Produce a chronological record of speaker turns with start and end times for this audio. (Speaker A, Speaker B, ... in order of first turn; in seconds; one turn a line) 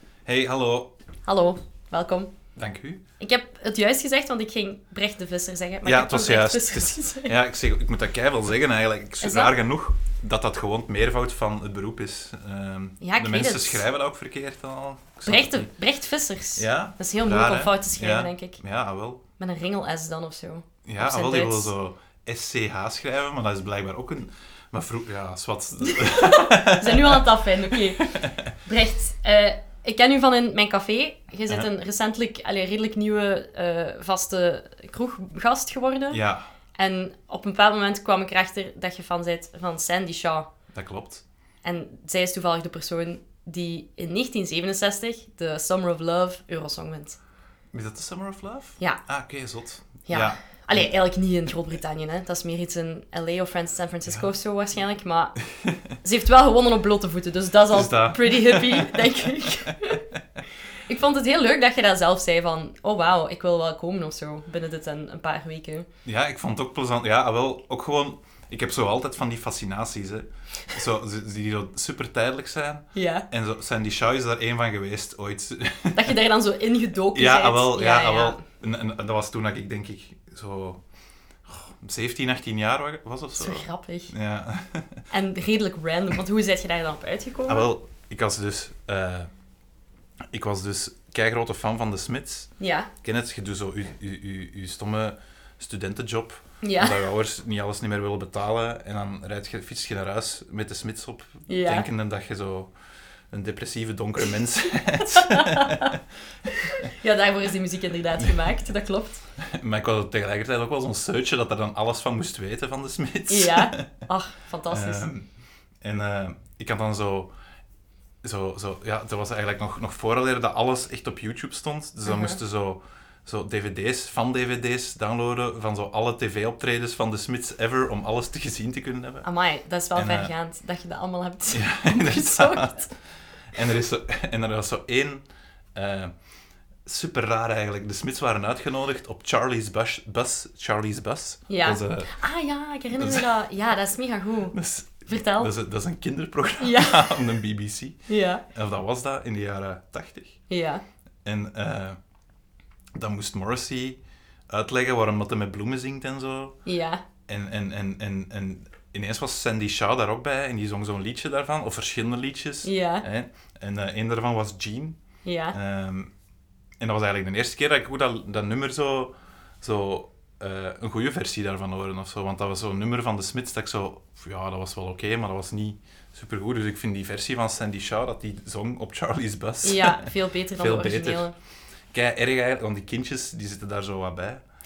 Speaker A: 0.3-0.9
Speaker B: 1.3-2.3
Speaker A: 2.6-3.0
Speaker B: 3.2-7.4
Speaker A: 5.8-15.7
Speaker B: 9.2-9.5
Speaker B: 13.0-13.8
Speaker B: 15.3-18.6
Speaker A: 16.6-19.2
Speaker B: 19.4-21.7
Speaker A: 20.9-28.5
Speaker B: 25.9-36.2
Speaker A: 36.1-36.5
Speaker B: 36.8-40.5
Speaker A: 40.7-41.2
Speaker B: 41.6-47.2
Speaker A: 47.7-50.9
Speaker B: 50.1-55.4
Speaker B: 56.0-60.0
Speaker A: 57.7-60.4
Speaker B: 60.9-65.9
Speaker A: 66.0-76.2
Speaker B: 72.9-73.3
Speaker B: 75.9-78.4
Speaker A: 77.1-80.8
Speaker A: 81.5-85.1
Speaker B: 83.4-84.1
Speaker B: 85.1-87.7
Speaker A: 87.5-89.3
Speaker A: 90.3-92.5
Speaker B: 92.6-92.9
Speaker A: 93.0-102.7
Speaker B: 96.6-97.0
Speaker B: 101.5-101.9
Speaker A: 103.3-106.8
Speaker B: 105.1-106.0
Speaker B: 106.5-109.2
Speaker A: 109.4-114.0
Speaker B: 113.3-115.1
Speaker A: 114.7-115.3
Speaker A: 115.8-117.3
Speaker A: 118.2-129.3
Speaker B: 122.1-122.4
Speaker B: 129.2-132.9
Speaker A: 129.9-130.3
Speaker A: 131.5-132.9
Speaker A: 133.5-136.1
Speaker A: 136.8-142.1
Speaker B: 141.5-144.6
Speaker A: 143.0-143.3
Speaker A: 144.5-150.4
Speaker B: 145.1-145.5
Speaker B: 146.6-147.2
Speaker B: 148.1-148.4
Speaker B: 150.5-150.8
Speaker A: 151.2-152.0
Speaker A: 153.0-156.6
Speaker B: 156.7-157.0
Speaker A: 157.3-165.0
Speaker B: 162.6-163.1
Speaker B: 165.2-165.6
Speaker A: 165.5-166.1
Speaker A: 166.8-181.3
Speaker B: 179.6-181.3
Speaker A: 181.9-184.4